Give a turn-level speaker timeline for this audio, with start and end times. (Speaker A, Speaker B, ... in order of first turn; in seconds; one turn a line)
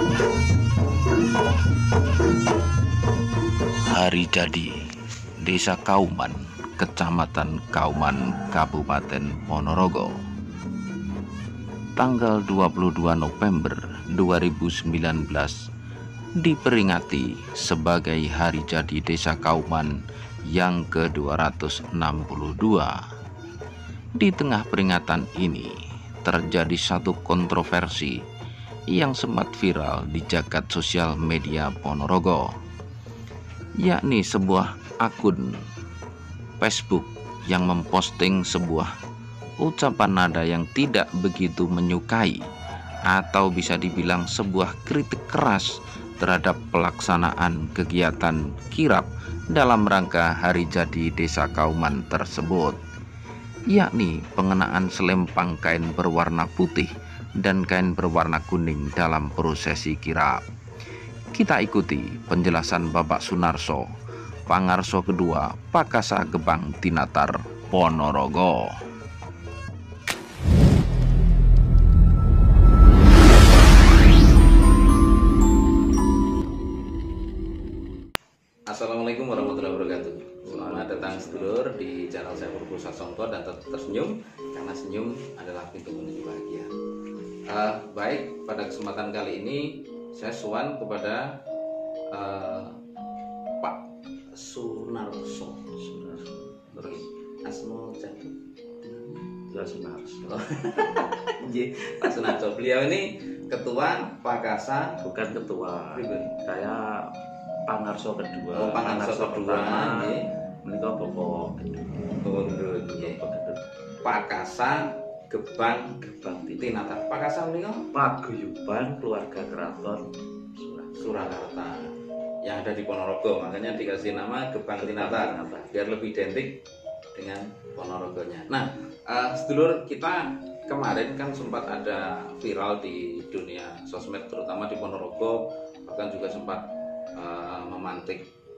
Speaker A: 3.9-4.9
Speaker A: 5.4-10.2
Speaker A: 12.0-15.6
Speaker A: 16.4-23.0
Speaker A: 24.2-28.2
Speaker A: 28.9-32.5
Speaker A: 33.8-35.6
Speaker A: 36.6-38.9
Speaker A: 39.6-42.4
Speaker A: 43.1-52.8
Speaker A: 53.7-60.4
Speaker A: 61.3-63.9
Speaker A: 64.5-68.7
Speaker A: 78.7-86.7
Speaker B: 80.4-81.6
Speaker A: 87.5-91.3
Speaker A: 92.1-92.8
Speaker A: 94.3-95.7
Speaker B: 95.8-97.1
Speaker A: 96.7-99.3
Speaker B: 99.5-100.3
Speaker A: 100.2-105.0
Speaker B: 105.0-107.1
Speaker A: 105.9-106.3
Speaker B: 107.7-110.1
Speaker A: 108.5-110.3
Speaker B: 110.6-112.2
Speaker A: 112.2-113.2
Speaker B: 112.9-113.6
Speaker A: 114.0-116.0
Speaker B: 116.0-116.7
Speaker A: 116.6-117.9
Speaker B: 117.9-121.4
Speaker A: 121.0-121.9
Speaker A: 122.4-126.6
Speaker B: 124.8-125.7
Speaker A: 127.1-136.6
Speaker A: 137.2-138.2